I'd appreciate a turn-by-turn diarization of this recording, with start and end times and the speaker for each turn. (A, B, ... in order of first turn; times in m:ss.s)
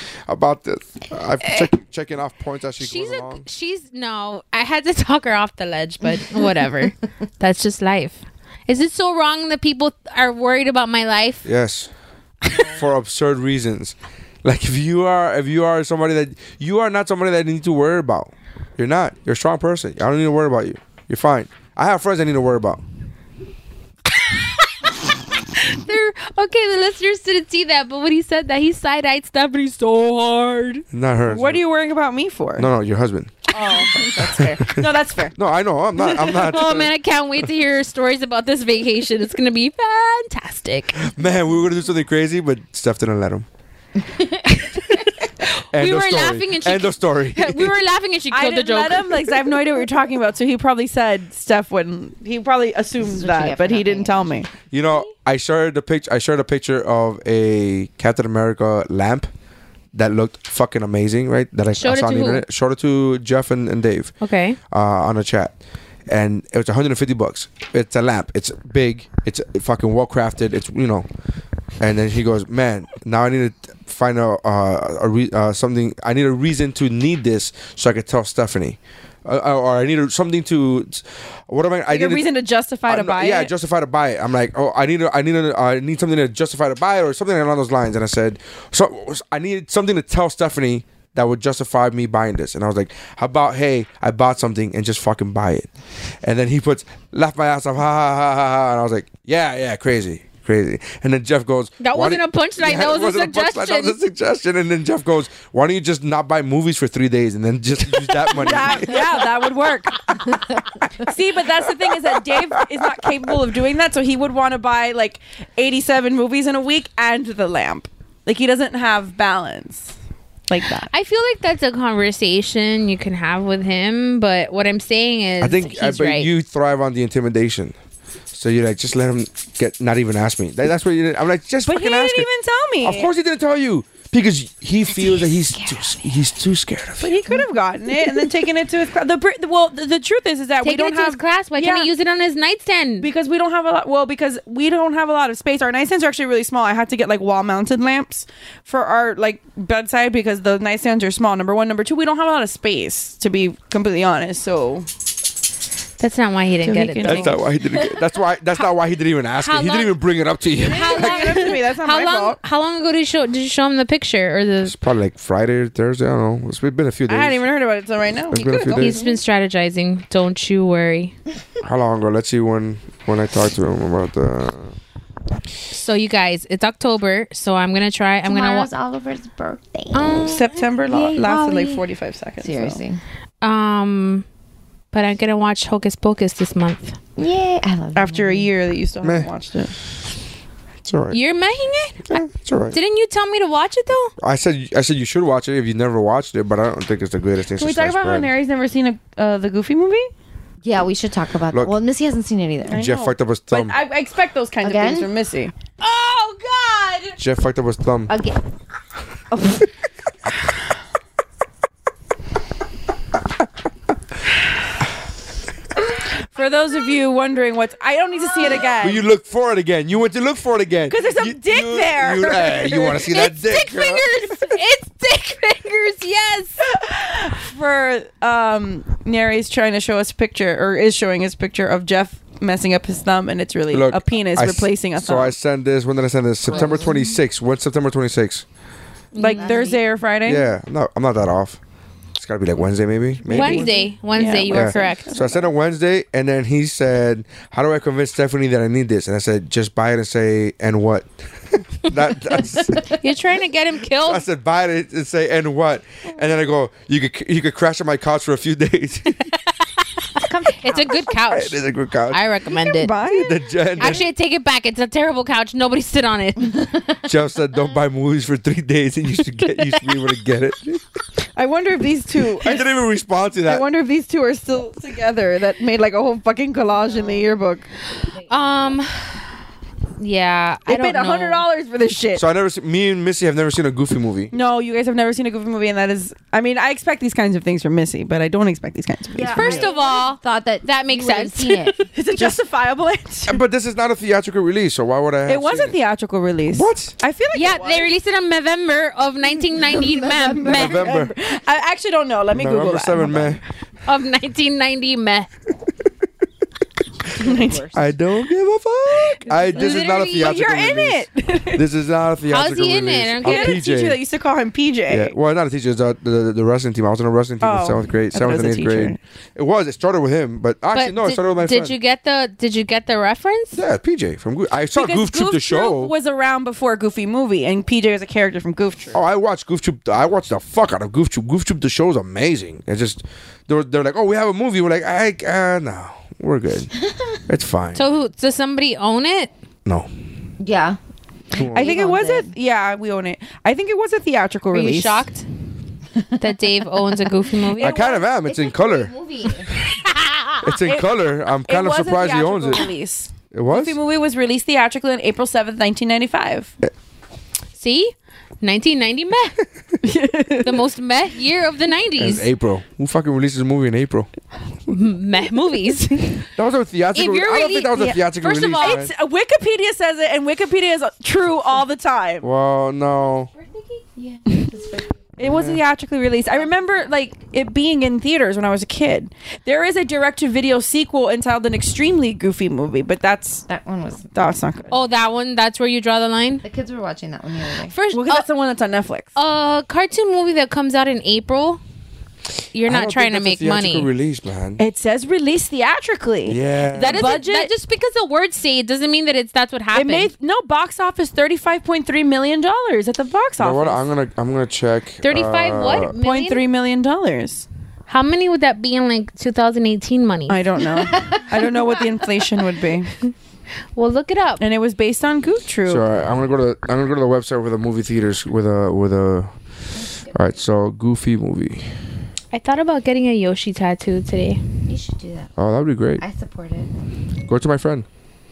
0:00.3-0:03.4 A
0:02.8-0:11.5 B
0:11.4-0:11.9 A
0:12.5-0:22.8 A
0:24.1-0:30.8 B
0:30.9-0:31.6 A
0:31.3-0:32.7 C
0:32.6-0:33.5 A
0:33.5-0:35.4 C
0:34.7-0:36.9 A
0:36.3-0:41.1 B
0:41.0-0:43.4 A
0:44.1-0:44.5 D
0:44.6-0:49.6 B
0:45.7-0:47.7 A
0:48.3-0:54.5 C
0:53.0-0:54.4 D
0:54.7-0:59.3 A
0:59.9-1:04.1 A
1:01.7-1:02.4 B
1:04.2-1:04.6 B
1:04.7-1:05.5 A
1:06.1-1:11.0 A
1:11.8-1:22.3 A
1:21.9-1:23.5 C
1:22.9-1:35.7 A
1:36.2-1:49.3 A
1:41.8-1:44.0 B
1:48.2-1:50.1 C
1:51.0-1:59.9 C
1:52.3-1:53.0 A
2:00.5-2:00.9 C
2:00.9-2:06.3 B
2:05.4-2:07.7 A
2:08.3-2:12.3 A
2:11.6-2:13.1 C
2:12.8-2:17.4 A
2:17.0-2:21.9 C
2:20.6-2:23.1 B
2:23.0-2:34.9 C
2:36.0-2:37.4 B
2:36.6-2:37.4 C
2:37.0-2:41.5 A
2:39.4-2:39.9 B
2:40.6-2:42.4 C
2:40.6-2:44.7 B
2:44.6-2:47.4 A
2:47.1-2:49.1 C
2:48.3-2:49.0 A
2:48.7-2:51.1 B
2:51.6-2:54.8 A
2:55.7-2:58.7 B
2:58.2-3:00.3 D
2:59.9-3:00.5 B
3:00.2-3:02.8 C
3:00.9-3:01.2 D
3:01.0-3:01.8 B
3:02.4-3:03.0 D
3:03.4-3:04.2 B
3:04.9-3:07.0 B
3:07.2-3:08.5 D
3:07.9-3:09.7 C
3:09.0-3:09.3 A
3:10.8-3:11.2 A
3:11.1-3:14.1 B
3:12.1-3:12.8 A
3:14.2-3:18.3 A
3:17.6-3:20.1 C
3:20.6-3:22.8 D
3:22.7-3:25.5 C
3:22.7-3:23.8 A
3:24.6-3:25.1 D
3:25.8-3:27.2 B
3:27.2-3:28.1 A
3:28.1-3:28.4 D
3:36.3-3:39.0 C
3:38.8-3:44.5 A
3:40.9-3:43.1 C
3:43.0-3:46.6 B
3:46.7-3:55.3 C
3:53.7-3:58.4 A
3:56.5-3:56.9 C
3:56.5-3:56.9 D
3:59.1-3:59.8 B
3:59.2-4:00.5 C
3:59.3-3:59.8 D
4:00.2-4:01.6 A
4:02.2-4:03.7 A
4:03.2-4:05.4 C
4:03.3-4:05.1 B
4:04.5-4:12.9 A
4:12.8-4:14.2 B
4:14.0-4:19.2 A
4:20.2-4:21.1 D
4:20.6-4:22.9 B
4:21.3-4:22.2 A
4:22.7-4:23.8 C
4:23.0-4:24.0 A
4:23.8-4:26.7 B
4:27.0-4:30.8 A
4:29.6-4:30.0 B
4:31.4-4:32.8 C
4:32.4-4:33.6 A
4:33.4-4:37.7 C
4:38.3-4:39.2 B
4:40.0-4:41.4 B
4:40.6-4:42.3 C
4:42.2-4:44.3 A
4:44.3-4:49.7 C
4:49.1-4:51.9 D
4:49.3-4:51.8 B
4:51.9-4:53.4 C
4:53.3-4:55.8 A
4:55.3-4:57.9 C
4:56.5-4:56.9 A
4:57.3-5:00.9 B
4:59.6-5:00.6 D
5:00.2-5:03.4 C
5:00.4-5:01.1 A
5:02.3-5:03.4 A
5:03.8-5:05.3 B
5:07.2-5:07.7 C
5:07.2-5:07.7 D
5:07.7-5:14.0 A
5:09.3-5:10.3 B
5:09.3-5:11.6 C
5:12.3-5:13.6 B
5:13.2-5:15.1 C
5:14.9-5:21.7 A
5:17.4-5:19.0 C
5:20.7-5:23.6 B
5:23.5-5:25.9 A
5:24.7-5:29.0 C
5:28.9-5:36.7 A
5:36.8-5:37.2 D
5:37.3-5:37.8 A
5:37.7-5:39.3 B
5:40.4-5:40.8 D
5:41.3-5:42.3 D
5:41.3-5:41.7 A
5:41.5-5:45.0 C
5:44.5-5:45.2 B
5:46.2-5:47.8 B
5:47.6-5:48.9 A
5:47.6-5:48.0 C
5:47.9-5:49.6 D
5:49.8-5:50.4 B
5:50.4-5:52.7 A
5:50.6-5:50.9 C
5:51.4-5:56.5 C
5:53.3-5:53.8 A
5:57.6-5:59.4 B
5:59.8-6:00.6 C
6:00.4-6:02.3 B
6:02.0-6:04.1 A
6:04.7-6:06.3 B
6:06.4-6:08.9 A
6:06.9-6:08.9 B
6:08.6-6:12.3 C
6:12.2-6:13.3 A
6:13.4-6:14.9 D
6:15.2-6:23.4 C
6:15.2-6:15.6 A
6:23.5-6:24.1 D
6:24.1-6:24.8 C
6:24.7-6:26.4 B
6:26.4-6:27.7 D
6:27.7-6:28.2 B
6:27.9-6:29.2 C
6:29.2-6:31.6 B
6:32.5-6:33.9 B
6:32.7-6:34.6 A
6:34.6-6:37.5 C
6:36.2-6:37.2 A
6:36.7-6:40.1 B
6:39.7-6:43.8 C
6:43.4-6:46.0 A
6:45.0-6:46.4 B
6:45.9-6:47.4 C
6:47.9-6:50.4 B
6:50.3-6:53.0 C
6:50.9-6:51.4 D
6:53.7-6:54.4 B
6:54.4-6:55.8 C
6:55.6-6:59.3 A
6:59.7-7:00.4 D
7:00.1-7:01.7 A
7:02.3-7:04.4 B
7:04.6-7:05.3 D
7:05.4-7:06.0 A
7:06.0-7:06.7 D
7:07.2-7:07.8 A